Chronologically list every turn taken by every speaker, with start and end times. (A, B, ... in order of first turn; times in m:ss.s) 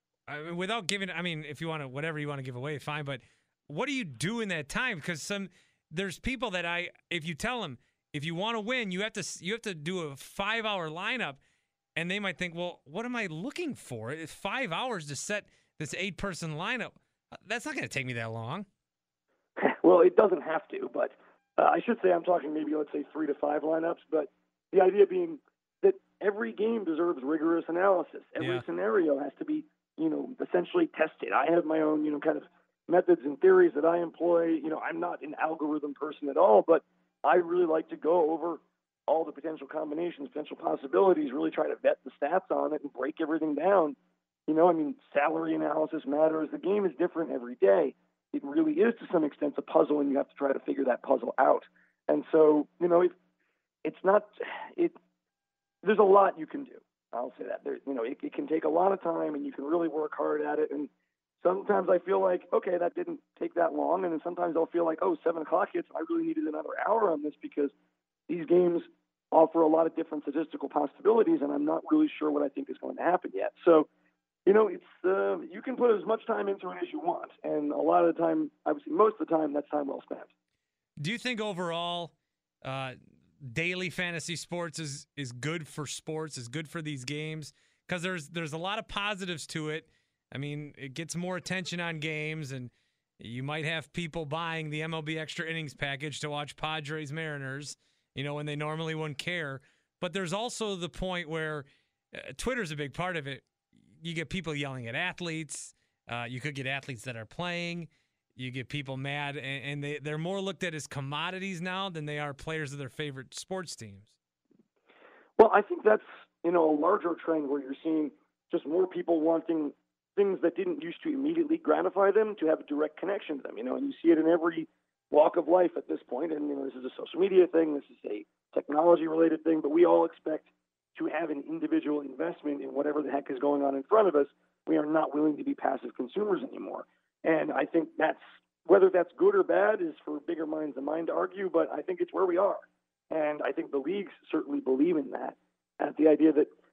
0:00.3-0:11.4 A
0:12.0-0:18.7 A
0:19.6-0:44.0 B
0:28.4-0:28.6 A
0:44.5-0:53.1 B
0:53.8-0:54.9 B
0:55.8-1:00.9 B
1:01.4-1:07.7 B
1:08.3-1:13.9 B
1:14.4-1:20.3 B
1:21.0-1:22.1 A
1:22.6-1:23.0 A
1:23.5-1:43.5 A
1:44.0-1:54.1 A
1:55.4-2:26.5 B